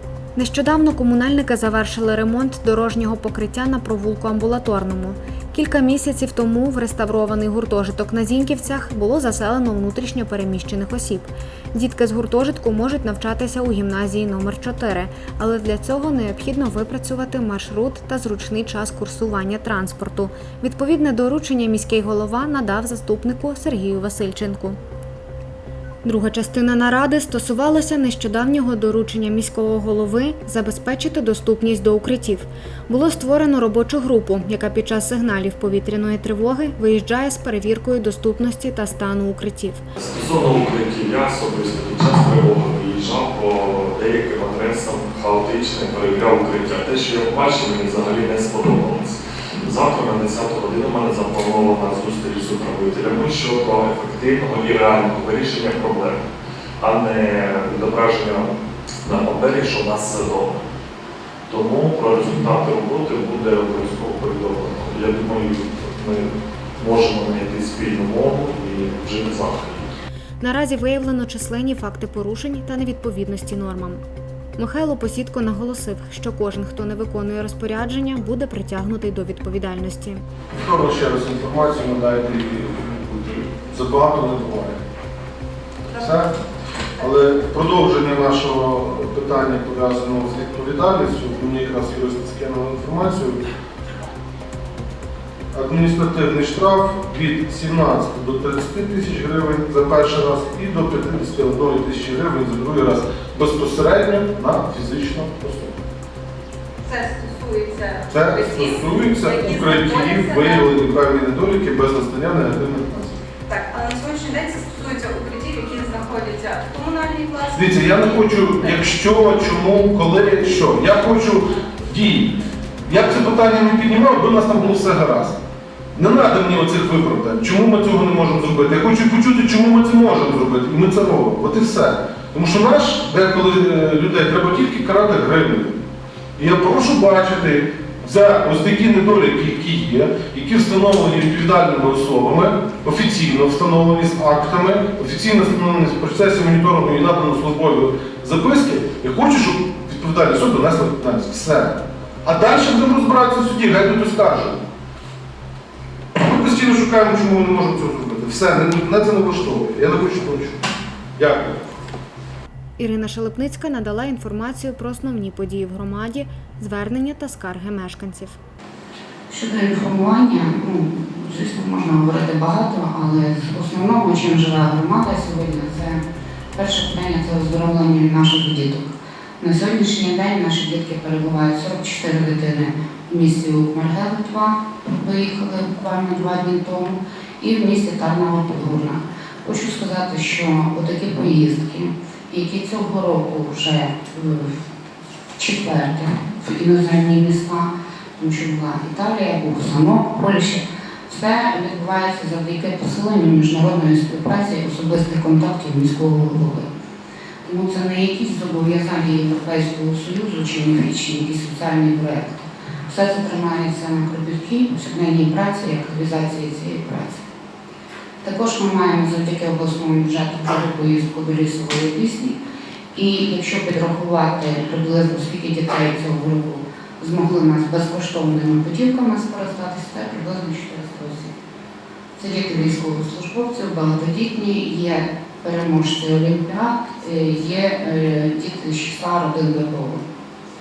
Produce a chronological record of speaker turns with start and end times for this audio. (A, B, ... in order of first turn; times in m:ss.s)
0:00.4-0:24.8 A
0:26.0-0:39.8 A
0:40.0-0:56.2 B
0:56.8-1:00.7 B
1:01.5-1:09.9 B
1:10.4-1:14.0 A
1:14.6-1:20.2 A
1:20.5-1:24.8 C
1:25.9-1:26.4 C
1:27.0-1:33.5 C
1:35.5-1:45.8 C
1:46.8-1:50.7 D
1:48.1-1:53.2 C
1:53.5-1:58.8 D
1:57.5-2:05.4 C
2:06.0-2:15.8 C
2:16.4-2:34.6 C
2:36.2-2:40.6 C
2:41.2-2:41.6 C
2:42.8-2:48.4 A
2:49.3-2:56.0 E
2:56.5-3:14.6 E
3:15.4-3:26.7 E
3:27.4-3:37.2 E
3:38.2-3:42.4 E
3:42.9-3:51.3 E
3:52.2-4:00.0 E